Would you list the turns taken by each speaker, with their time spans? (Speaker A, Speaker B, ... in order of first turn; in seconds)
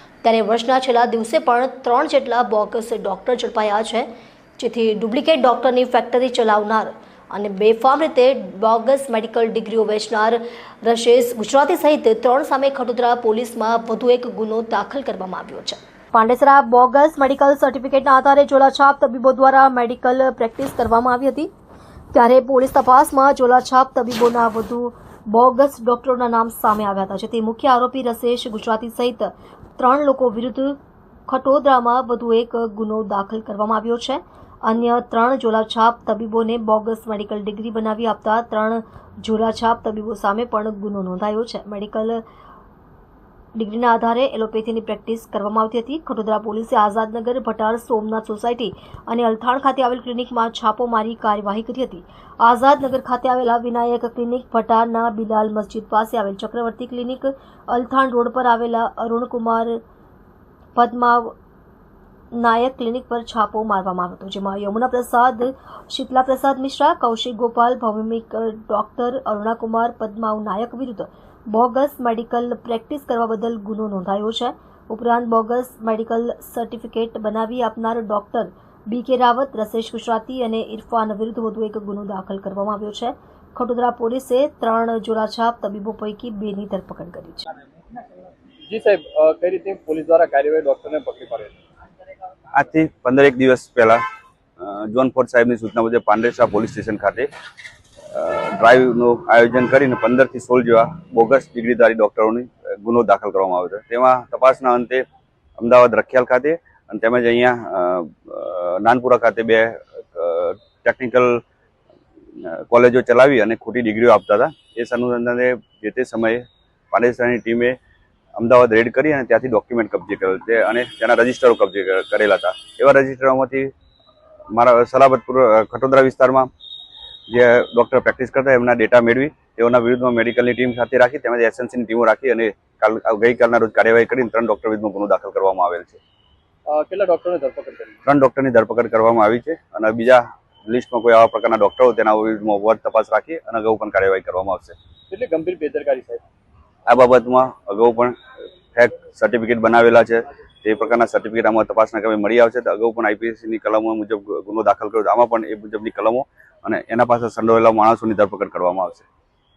Speaker A: 0.2-21.5, 22.1-42.2, 43.5-59.8, 60.8-61.3, 62.3-87.4
Speaker B: 88.7-91.5, 136.7-138.0, 145.1-146.2
Speaker C: 92.5-94.0, 94.6-97.3, 98.1-105.0, 105.6-111.4, 112.4-117.8, 118.3-123.7, 124.5-126.5, 127.3-136.0, 138.1-144.8, 146.9-148.2, 148.7-159.1